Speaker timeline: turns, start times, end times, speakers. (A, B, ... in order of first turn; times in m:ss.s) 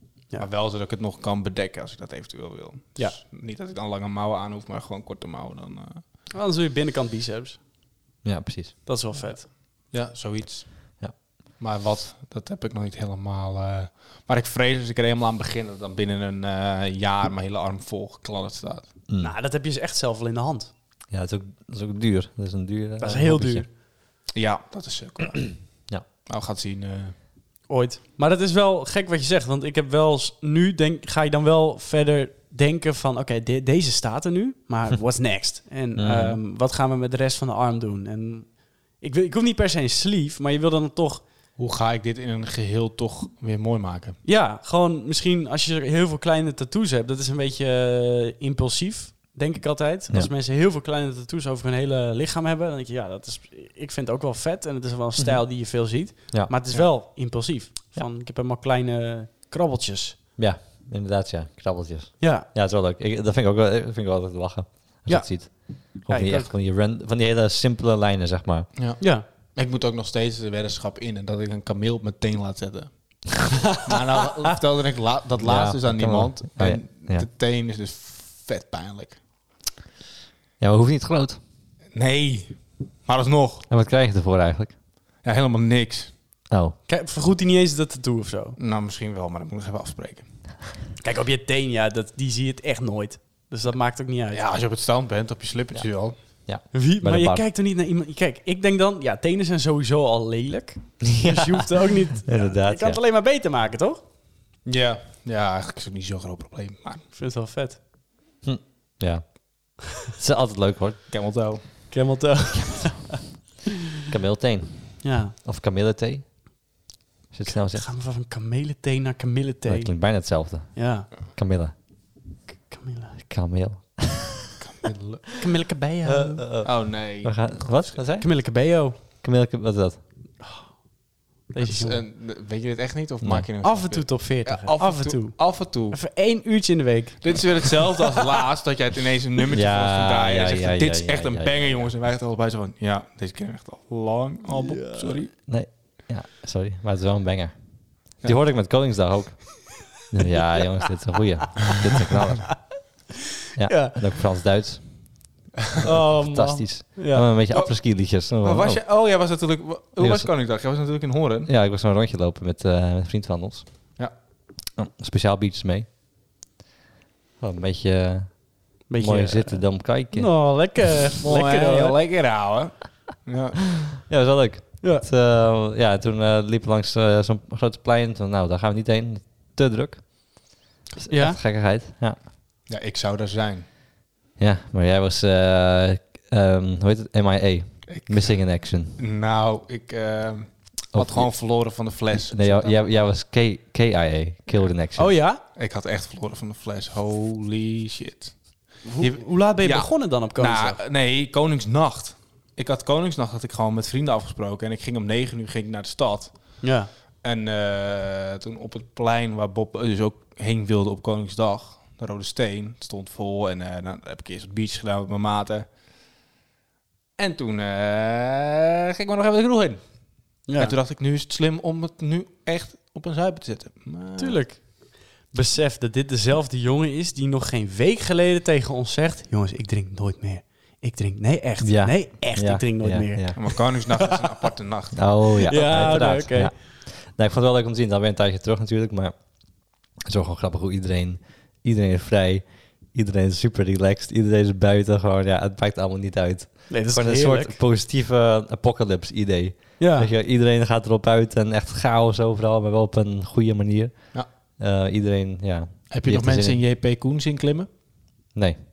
0:00.3-0:06.0 A
0:06.3-0:07.6 B
0:08.2-0:08.8 C
0:08.9-0:09.5 B
0:09.8-0:18.9 A
0:19.1-0:19.3 C
0:19.2-0:20.7 B
0:21.1-0:23.7 C
0:23.0-0:23.7 B
0:24.3-0:27.2 A
0:27.7-0:41.2 B
0:36.0-0:36.4 C
0:41.6-0:44.2 A
0:44.2-1:00.2 B
0:55.2-0:55.4 C
1:00.4-1:08.7 C
1:02.2-1:02.5 B
1:05.1-1:06.5 B
1:08.8-1:19.2 A
1:09.0-1:09.2 B
1:15.4-1:17.3 C
1:20.6-1:21.4 C
1:21.9-1:23.7 A
1:23.7-1:24.8 C
1:25.2-1:26.2 A
1:26.5-1:26.8 C
1:26.9-1:28.6 B
1:28.6-1:30.3 A
1:31.0-1:34.4 B
1:34.3-1:36.2 A
1:35.7-1:37.4 C
1:36.7-1:44.0 B
1:41.0-1:43.0 C
1:44.6-1:47.1 A
1:47.1-1:47.8 B
1:48.4-1:51.1 C
1:51.1-1:51.9 A
1:51.9-1:53.3 B
1:52.6-1:53.0 C
1:54.1-1:56.4 C
1:55.0-1:55.4 B
1:57.3-1:57.9 C
1:57.5-2:01.1 B
1:59.7-2:01.8 C
2:02.6-2:03.2 B
2:03.3-2:04.5 C
2:04.6-2:05.4 A
2:05.4-2:06.5 B
2:06.0-2:08.4 C
2:06.6-2:08.0 A
2:08.2-2:09.0 B
2:09.0-2:10.0 C
2:10.4-2:10.7 B
2:11.5-2:12.0 B
2:11.6-2:16.0 A
2:13.2-2:13.5 C
2:13.6-2:17.7 B
2:17.2-2:25.3 A
2:19.5-2:21.9 C
2:24.5-2:25.2 B
2:25.3-2:32.9 C
2:33.6-2:35.3 C
2:33.7-2:34.1 B
2:35.8-2:37.3 B
2:36.0-2:38.8 C
2:37.5-2:41.5 A
2:40.0-2:40.3 C
2:41.5-2:43.9 C
2:44.8-2:45.9 C
2:47.4-2:50.4 C
2:48.9-2:52.0 B
2:51.2-2:53.8 A
2:54.0-3:02.2 C
3:01.1-3:01.4 B
3:02.7-3:03.7 A
3:04.4-3:09.0 C
3:07.9-3:13.0 A
3:10.9-3:11.4 C
3:12.3-3:15.2 C
3:15.0-3:15.4 B
3:15.4-3:35.7 A
3:18.8-3:20.8 B
3:26.6-3:26.9 B
3:37.2-3:44.4 A
3:40.5-3:40.8 B
3:44.2-3:54.1 B
3:51.6-3:53.7 C
3:53.4-3:55.4 A
3:54.9-4:16.6 C
3:55.5-3:56.5 B
4:06.7-4:07.6 B
4:09.8-4:10.1 B
4:15.9-4:17.7 A
4:18.3-4:18.6 C